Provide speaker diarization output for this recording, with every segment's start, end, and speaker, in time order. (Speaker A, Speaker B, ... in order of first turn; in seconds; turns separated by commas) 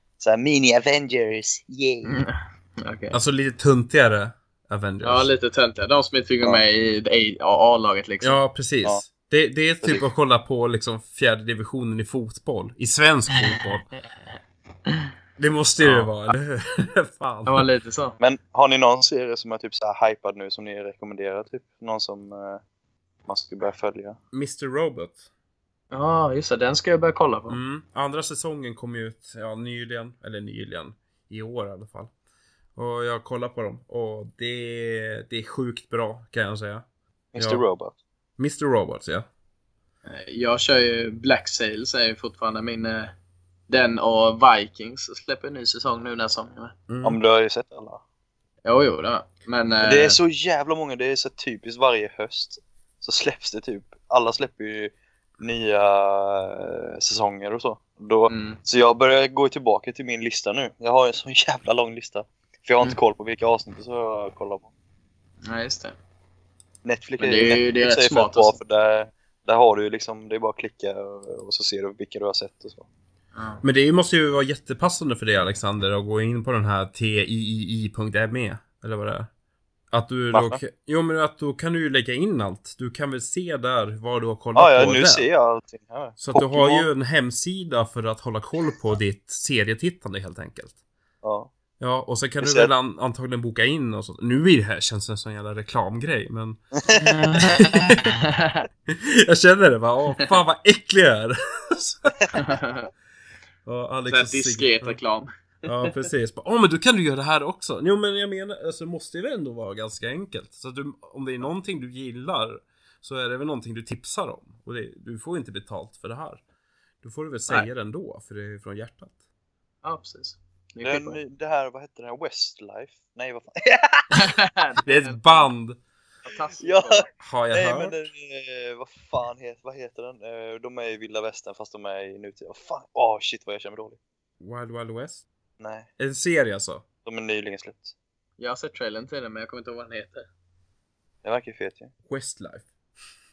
Speaker A: 0.2-2.2, Speaker B: 2.0-3.1, Speaker C: 3.1-5.3, Speaker B: 5.0-8.4, Speaker C: 8.2-13.9, Speaker C: 15.4-17.7, Speaker B: 15.8-16.1, Speaker B: 17.5-18.2, Speaker A: 18.2-22.6, Speaker A: 23.3-24.2, Speaker C: 24.3-25.2, Speaker B: 25.9-27.6, Speaker C: 27.5-32.1, Speaker C: 32.8-36.9, Speaker A: 37.3-37.9, Speaker C: 37.4-37.6, Speaker C: 38.4-39.3, Speaker B: 40.0-43.1, Speaker B: 43.7-46.7, Speaker C: 46.9-47.2, Speaker A: 47.0-48.0, Speaker B: 48.6-50.2, Speaker A: 49.8-64.7, Speaker B: 58.3-58.6, Speaker B: 65.5-65.9, Speaker A: 66.8-72.9, Speaker B: 67.2-68.6, Speaker B: 73.3-73.6, Speaker C: 73.6-79.3, Speaker C: 79.9-85.3, Speaker A: 80.3-80.6, Speaker A: 84.5-86.9, Speaker C: 86.2-90.8, Speaker A: 91.2-91.5, Speaker C: 91.8-96.6, Speaker A: 92.4-92.7, Speaker A: 96.8-97.2, Speaker B: 96.9-98.7, Speaker C: 97.4-98.1, Speaker C: 98.9-102.1, Speaker B: 102.3-102.9, Speaker C: 103.7-105.0, Speaker B: 104.1-105.7, Speaker C: 105.7-116.4, Speaker C: 117.0-119.1, Speaker B: 119.8-121.2, Speaker A: 120.8-124.2, Speaker B: 124.2-125.5, Speaker C: 124.8-125.8, Speaker B: 126.3-127.1, Speaker A: 126.6-134.0, Speaker C: 127.2-128.0, Speaker C: 134.4-135.2, Speaker A: 135.6-135.9, Speaker C: 136.0-136.8, Speaker A: 137.1-137.9, Speaker B: 138.4-140.3, Speaker A: 141.2-141.9, Speaker C: 142.1-142.7